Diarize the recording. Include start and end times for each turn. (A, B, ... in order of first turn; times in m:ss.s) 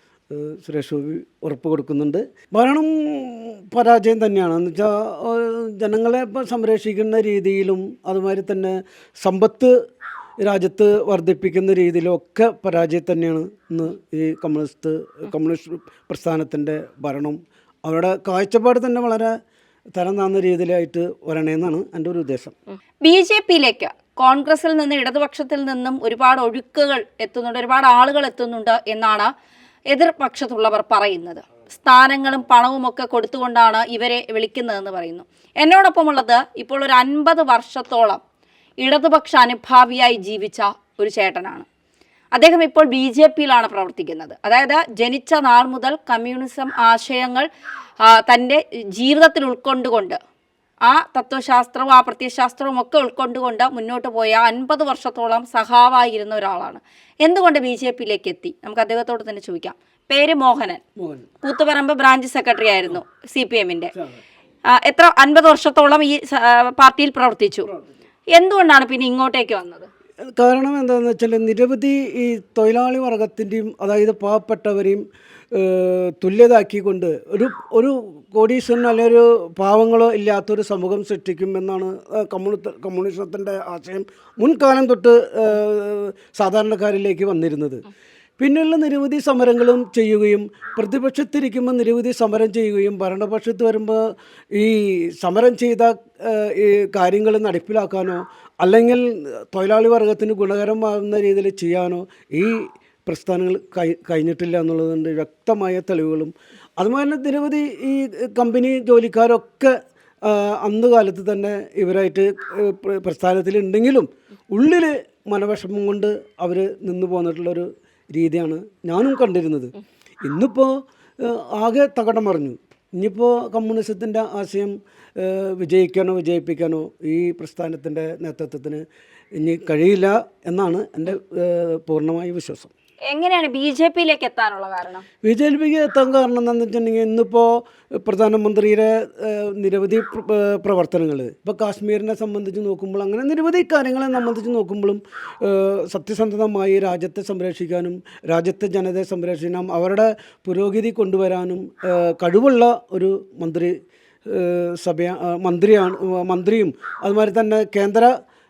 0:00.3-0:09.8 A
0:10.4-0:19.4 A
0:20.0-0:22.6 A
0:23.0-0:29.3 B
0:29.9-0:38.2 B
0:38.8-0:41.7 B
0:42.4-0:47.5 B
0:48.0-0:50.2 B
0:50.9-1:00.8 B
1:01.0-1:01.3 A
1:01.4-1:03.9 B
1:04.7-1:07.7 B
1:08.4-1:09.9 B
1:10.2-1:27.8 A
1:28.4-2:08.8 A
2:09.4-2:12.7 A
2:13.1-2:15.1 B
2:15.2-2:38.2 A